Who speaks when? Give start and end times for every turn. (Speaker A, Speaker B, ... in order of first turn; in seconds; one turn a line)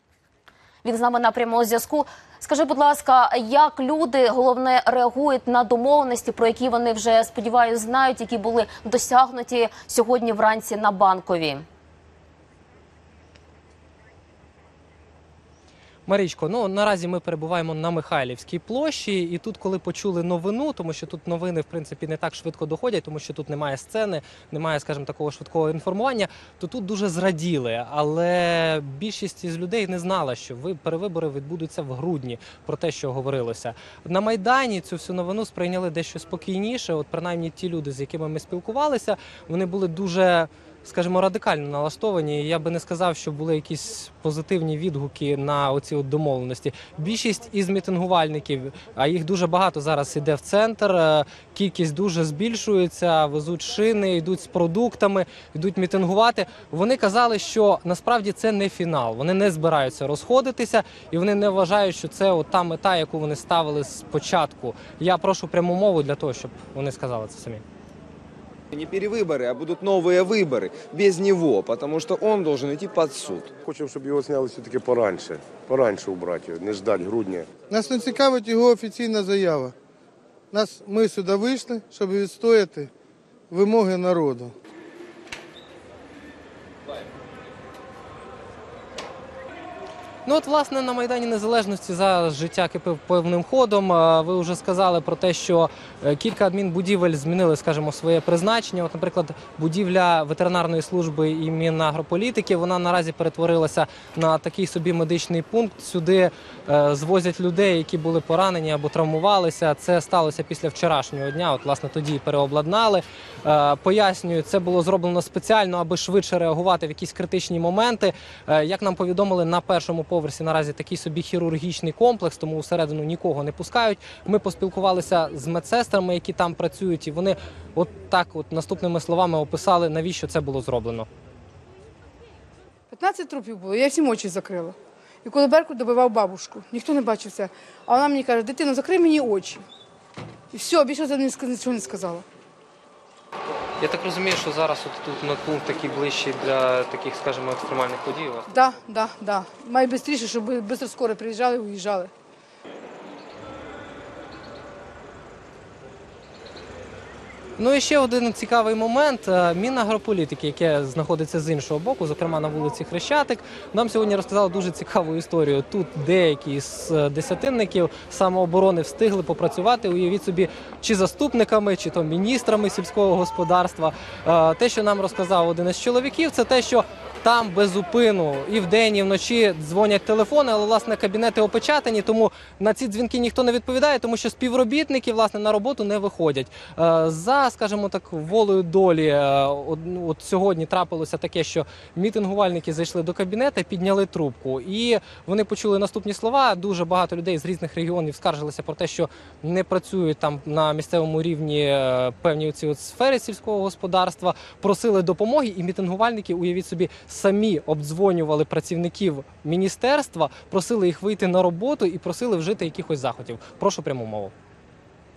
Speaker A: 0.8-11.6
Speaker B: 16.1-67.6
Speaker C: 68.7-73.5
Speaker D: 73.6-77.6
Speaker E: 77.7-79.8
Speaker E: 80.5-82.9
Speaker E: 83.5-84.5
Speaker B: 90.2-131.1
Speaker F: 132.9-139.6
Speaker F: 140.5-142.2
Speaker B: 143.8-148.5
Speaker F: 148.5-152.1
Speaker B: 157.6-214.3